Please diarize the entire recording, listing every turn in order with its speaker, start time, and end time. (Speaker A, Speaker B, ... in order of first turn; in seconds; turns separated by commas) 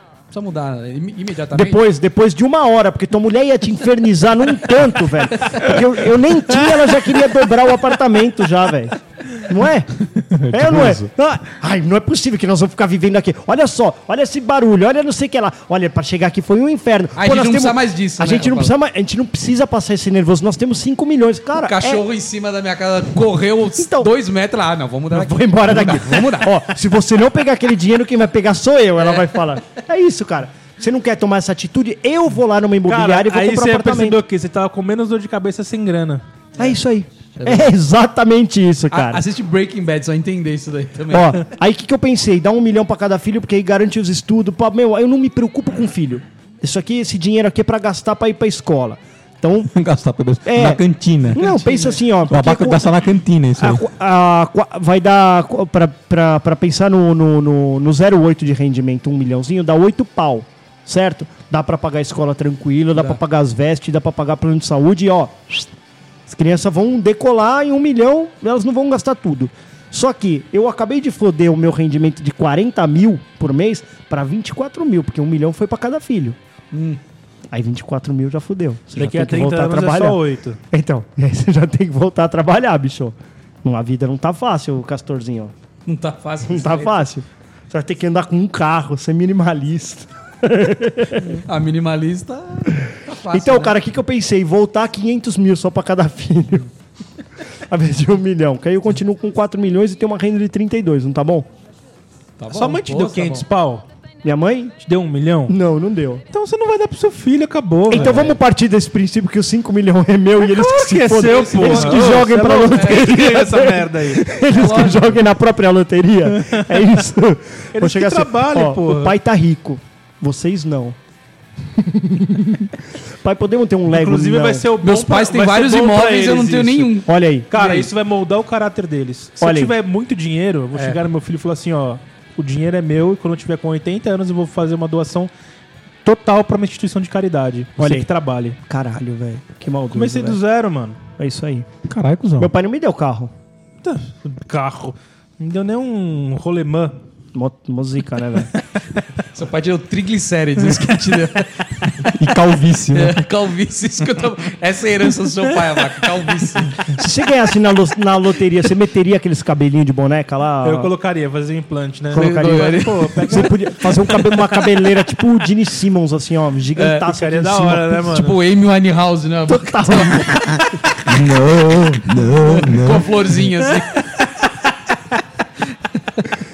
Speaker A: 0.3-1.8, Speaker B: 1.5-9.9, Speaker C: 10.3-11.1, Speaker B: 10.5-22.0, Speaker A: 17.2-18.7, Speaker A: 21.6-26.6, Speaker B: 23.8-24.1, Speaker B: 25.1-34.2, Speaker A: 29.0-29.4, Speaker D: 32.9-36.2, Speaker B: 36.6-39.2, Speaker A: 37.4-37.7, Speaker A: 38.9-41.5, Speaker B: 41.1-49.7, Speaker C: 49.7-51.4, Speaker B: 50.5-52.9, Speaker C: 52.3-53.8, Speaker B: 53.6-65.7, Speaker B: 66.3-76.4, Speaker A: 76.7-77.0, Speaker B: 77.5-85.5, Speaker D: 79.0-80.6, Speaker A: 85.9-87.0, Speaker B: 86.5-91.4, Speaker A: 91.2-93.8, Speaker B: 93.3-96.7, Speaker B: 97.7-101.5, Speaker A: 102.4-103.5, Speaker D: 102.5-103.8, Speaker B: 104.2-104.8, Speaker D: 104.8-105.5, Speaker B: 105.5-106.2, Speaker D: 106.3-108.4, Speaker B: 107.9-121.0, Speaker A: 107.9-108.4, Speaker D: 110.4-114.3, Speaker A: 111.3-112.2, Speaker A: 112.8-113.0, Speaker A: 114.5-115.2, Speaker D: 116.4-116.8, Speaker D: 117.8-119.1, Speaker B: 121.8-124.7, Speaker D: 123.9-127.0, Speaker A: 124.8-127.9, Speaker B: 127.1-127.5, Speaker D: 127.5-135.3, Speaker B: 129.4-129.7, Speaker A: 130.7-131.0, Speaker D: 136.0-138.6, Speaker B: 137.8-138.1, Speaker B: 138.6-140.4, Speaker D: 139.9-141.0, Speaker B: 141.2-141.7, Speaker C: 141.8-142.5, Speaker B: 142.4-143.3, Speaker D: 143.8-147.0, Speaker B: 147.3-148.5, Speaker A: 149.3-152.2, Speaker C: 152.1-153.2, Speaker A: 152.9-156.9, Speaker B: 156.9-160.9, Speaker D: 160.6-163.6, Speaker B: 162.1-168.1, Speaker A: 162.1-163.5, Speaker A: 166.8-167.1, Speaker D: 167.1-168.4, Speaker A: 168.1-170.7, Speaker B: 169.5-170.6, Speaker C: 171.1-173.1, Speaker A: 172.4-174.4